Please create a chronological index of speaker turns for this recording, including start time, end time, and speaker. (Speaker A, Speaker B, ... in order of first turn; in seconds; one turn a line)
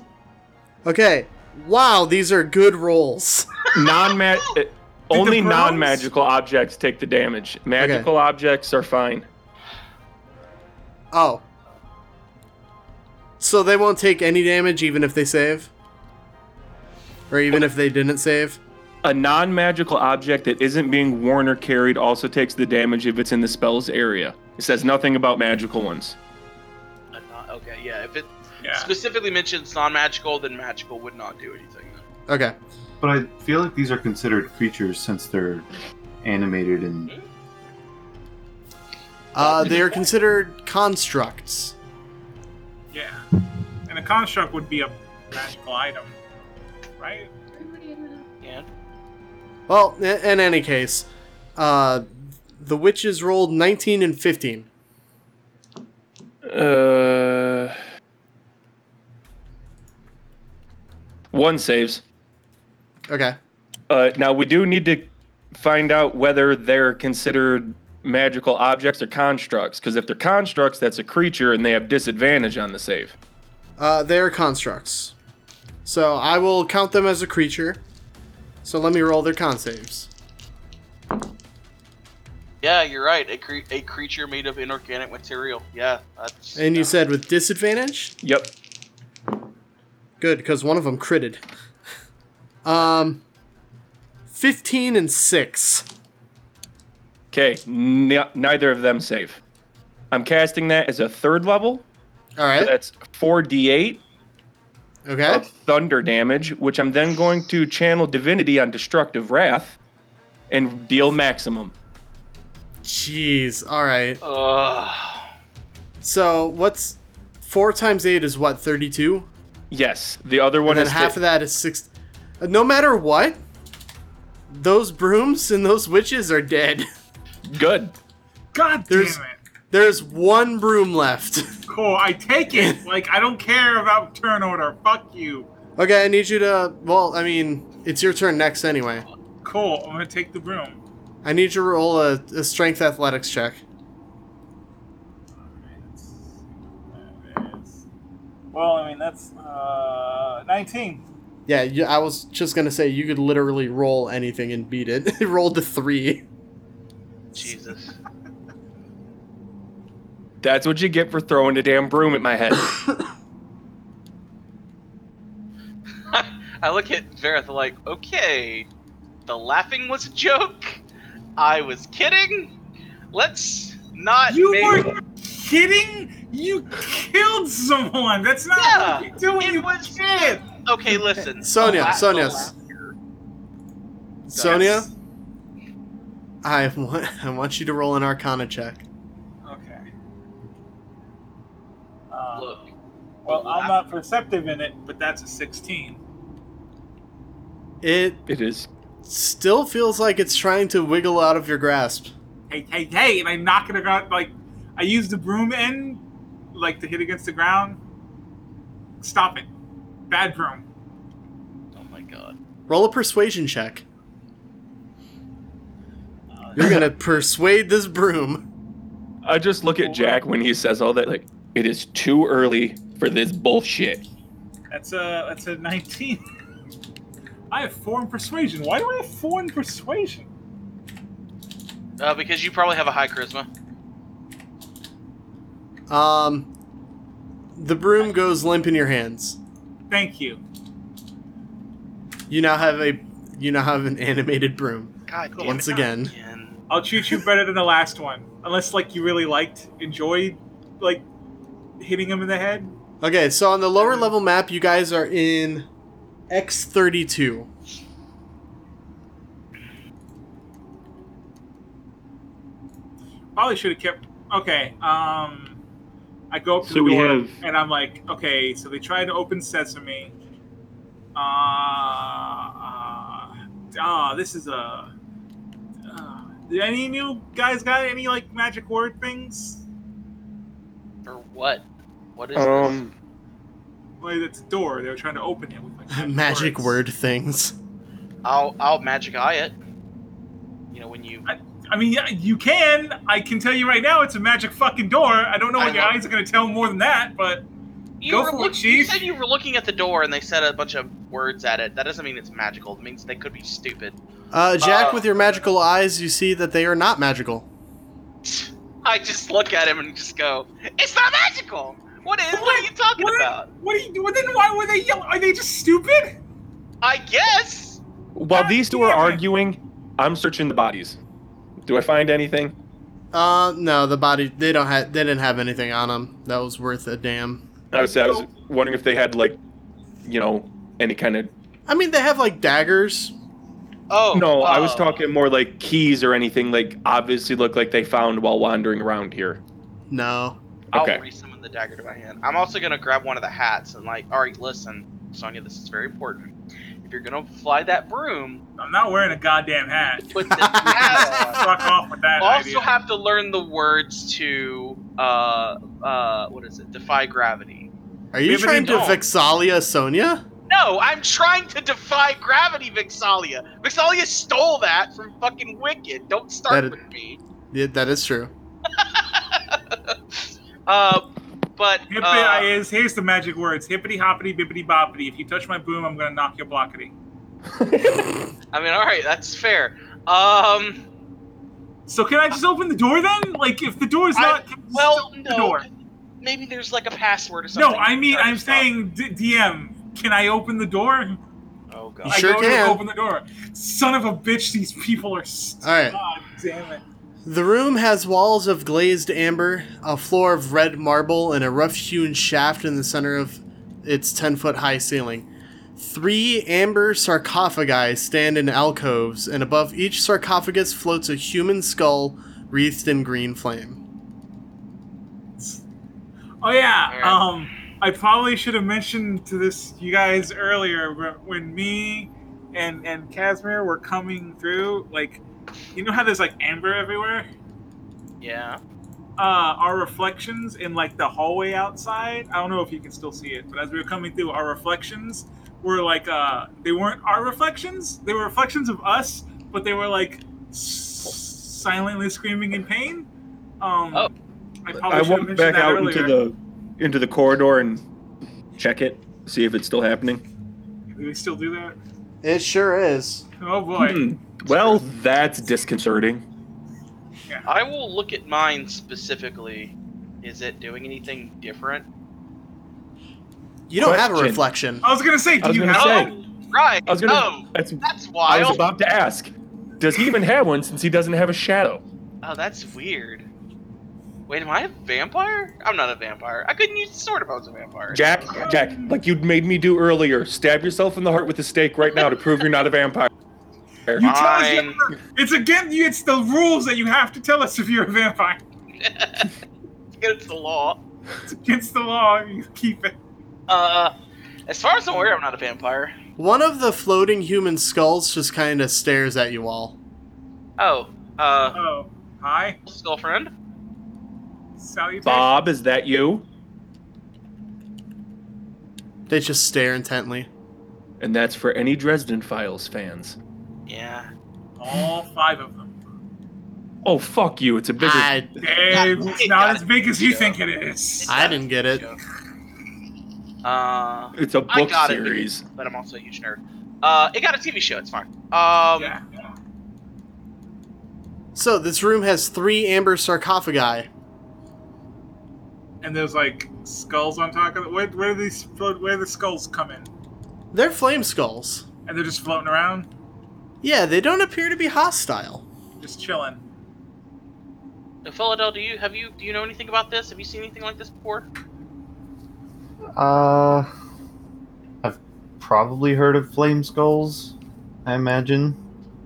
Speaker A: 0.8-3.5
Speaker B: 3.7-9.3
Speaker C: 5.1-6.1
Speaker A: 7.8-8.1
Speaker A: 11.1-11.4
Speaker A: 13.4-15.7
Speaker A: 17.3-18.6
Speaker B: 19.0-26.1
Speaker D: 27.1-32.0
Speaker C: 28.6-28.9
Speaker A: 32.3-32.5
Speaker E: 33.0-35.7
Speaker E: 36.2-37.1
Speaker A: 39.3-41.7
Speaker D: 39.7-40.0
Speaker C: 42.9-43.2
Speaker C: 43.9-46.1
Speaker C: 47.0-47.3
Speaker D: 48.4-48.7
Speaker A: 49.7-54.7
Speaker B: 56.4-57.8
Speaker B: 61.3-62.0
Speaker A: 63.1-63.4
Speaker B: 63.9-73.1
Speaker A: 73.8-75.1
Speaker A: 75.8-77.8
Speaker A: 78.6-80.1
Speaker D: 82.6-86.9
Speaker A: 86.5-88.1
Speaker B: 88.2-88.5
Speaker A: 90.2-91.4
Speaker A: 92.6-93.2
Speaker A: 94.3-95.8
Speaker B: 97.3-99.4
Speaker B: 100.1-101.8
Speaker A: 102.4-102.7
Speaker B: 102.6-104.0
Speaker A: 105.0-105.5
Speaker B: 105.3-109.8
Speaker B: 110.5-111.7
Speaker A: 112.8-114.2
Speaker D: 114.2-115.3
Speaker A: 116.0-119.3
Speaker B: 119.7-121.2
Speaker A: 120.7-121.9
Speaker A: 122.4-123.4
Speaker A: 124.5-126.9
Speaker B: 127.5-127.9
Speaker C: 128.5-129.4
Speaker A: 128.9-129.2
Speaker A: 129.7-131.5
Speaker C: 131.7-135.5
Speaker A: 132.5-132.8
Speaker A: 135.8-139.0
Speaker C: 139.4-140.8
Speaker A: 141.2-143.6
Speaker C: 145.5-147.8
Speaker C: 148.5-151.0
Speaker A: 151.5-156.2
Speaker D: 157.3-157.9
Speaker B: 160.4-162.8
Speaker D: 166.1-168.7
Speaker D: 169.2-170.8
Speaker D: 171.4-172.5
Speaker D: 173.1-174.9
Speaker C: 174.3-180.4
Speaker D: 178.5-182.9
Speaker A: 181.4-182.5
Speaker A: 184.3-184.9
Speaker D: 184.3-184.9
Speaker C: 184.4-184.7
Speaker A: 186.4-188.8
Speaker C: 189.4-189.8
Speaker C: 192.1-192.6
Speaker D: 192.3-192.7
Speaker C: 193.2-196.0
Speaker D: 193.2-193.8
Speaker A: 197.8-198.2
Speaker B: 198.3-198.7
Speaker A: 199.0-202.1
Speaker C: 202.5-206.0
Speaker C: 206.5-207.8
Speaker C: 209.0-209.5
Speaker C: 210.1-210.6
Speaker D: 211.7-212.3
Speaker A: 212.7-213.8
Speaker C: 216.4-216.9
Speaker A: 216.6-218.4
Speaker B: 219.2-224.0
Speaker C: 219.8-220.2
Speaker C: 224.7-226.2
Speaker C: 227.5-230.3
Speaker D: 232.0-233.5
Speaker A: 235.9-236.5
Speaker A: 237.6-239.4
Speaker C: 239.9-240.4
Speaker A: 242.3-246.1
Speaker D: 245.1-246.6
Speaker C: 245.3-245.8
Speaker C: 246.7-251.0
Speaker C: 251.8-252.7
Speaker A: 253.0-255.7
Speaker C: 253.8-254.1
Speaker A: 256.3-257.5
Speaker C: 263.4-265.6
Speaker C: 266.3-270.1
Speaker B: 266.6-267.4
Speaker C: 271.1-274.9
Speaker C: 275.9-279.6
Speaker D: 281.1-281.6
Speaker D: 282.1-282.8
Speaker B: 282.3-282.9
Speaker C: 284.0-286.8
Speaker A: 285.9-287.5
Speaker D: 288.2-289.6
Speaker D: 290.7-291.2
Speaker C: 291.2-297.4
Speaker D: 295.6-296.0
Speaker D: 298.0-304.0
Speaker C: 298.1-299.1
Speaker A: 304.3-307.5
Speaker D: 304.6-305.1
Speaker D: 308.2-313.5
Speaker C: 312.3-316.2
Speaker D: 316.8-317.8
Speaker B: 318.1-321.0
Speaker C: 318.3-319.2
Speaker B: 321.6-322.5
Speaker A: 323.1-327.4
Speaker B: 327.7-329.4
Speaker C: 327.8-328.2
Speaker B: 330.0-331.3
Speaker A: 331.7-333.1
Speaker D: 333.9-335.0
Speaker B: 334.1-339.4
Speaker A: 339.9-340.4
Speaker B: 340.7-341.0
Speaker D: 340.7-348.4
Speaker C: 348.6-352.7
Speaker D: 350.0-351.5
Speaker A: 350.4-351.4
Speaker D: 352.2-357.7
Speaker A: 358.1-360.2
Speaker C: 358.3-358.9
Speaker D: 358.6-359.0
Speaker D: 360.5-367.2
Speaker A: 366.5-366.8
Speaker A: 367.5-368.3
Speaker D: 368.7-369.9
Speaker D: 370.6-372.5
Speaker C: 371.9-376.9
Speaker B: 377.5-378.2
Speaker D: 378.5-380.8
Speaker C: 381.9-385.6
Speaker D: 384.1-385.6
Speaker D: 386.2-388.7
Speaker C: 387.5-391.2
Speaker D: 391.7-392.3
Speaker A: 392.0-392.8
Speaker C: 392.1-396.8
Speaker A: 395.6-396.0
Speaker A: 397.2-413.8
Speaker C: 416.4-425.2
Speaker D: 416.9-417.3
Speaker C: 425.7-427.3
Speaker D: 428.2-428.6
Speaker C: 429.2-443.1
Speaker C: 443.6-444.1
Speaker C: 444.6-446.1
Speaker B: 444.9-447.8
Speaker B: 448.6-450.2
Speaker C: 450.9-451.8
Speaker A: 452.2-453.2
Speaker C: 453.4-454.8
Speaker B: 453.8-456.2
Speaker D: 457.4-461.9
Speaker A: 463.7-464.8
Speaker B: 463.8-464.4
Speaker C: 464.8-466.2
Speaker B: 465.4-466.1
Speaker D: 465.7-468.6
Speaker B: 466.9-471.8
Speaker D: 472.2-473.2
Speaker D: 474.3-478.1
Speaker B: 477.9-483.1
Speaker C: 478.3-479.0
Speaker C: 484.0-488.4
Speaker D: 484.0-484.8
Speaker D: 488.8-489.3
Speaker D: 490.0-490.8
Speaker C: 491.2-492.9
Speaker D: 493.5-493.9
Speaker D: 494.5-495.9
Speaker A: 496.2-499.8
Speaker D: 500.6-501.6
Speaker C: 501.5-502.6
Speaker D: 502.6-503.3
Speaker C: 504.6-505.4
Speaker B: 505.0-506.2
Speaker A: 509.1-510.3
Speaker B: 511.0-513.2
Speaker D: 513.7-514.1
Speaker C: 514.6-515.7
Speaker B: 516.8-518.2
Speaker A: 517.8-518.3
Speaker C: 518.4-521.1
Speaker D: 518.7-520.4
Speaker D: 521.0-522.0
Speaker A: 521.1-521.9
Speaker D: 523.4-529.0
Speaker B: 524.1-525.4
Speaker C: 528.8-529.3
Speaker A: 531.3-533.9
Speaker C: 535.8-539.9
Speaker A: 540.5-541.6
Speaker C: 541.9-542.9
Speaker A: 543.6-545.4
Speaker C: 545.8-546.4
Speaker D: 548.0-551.3
Speaker E: 553.0-553.7
Speaker E: 554.8-557.3
Speaker E: 557.8-558.6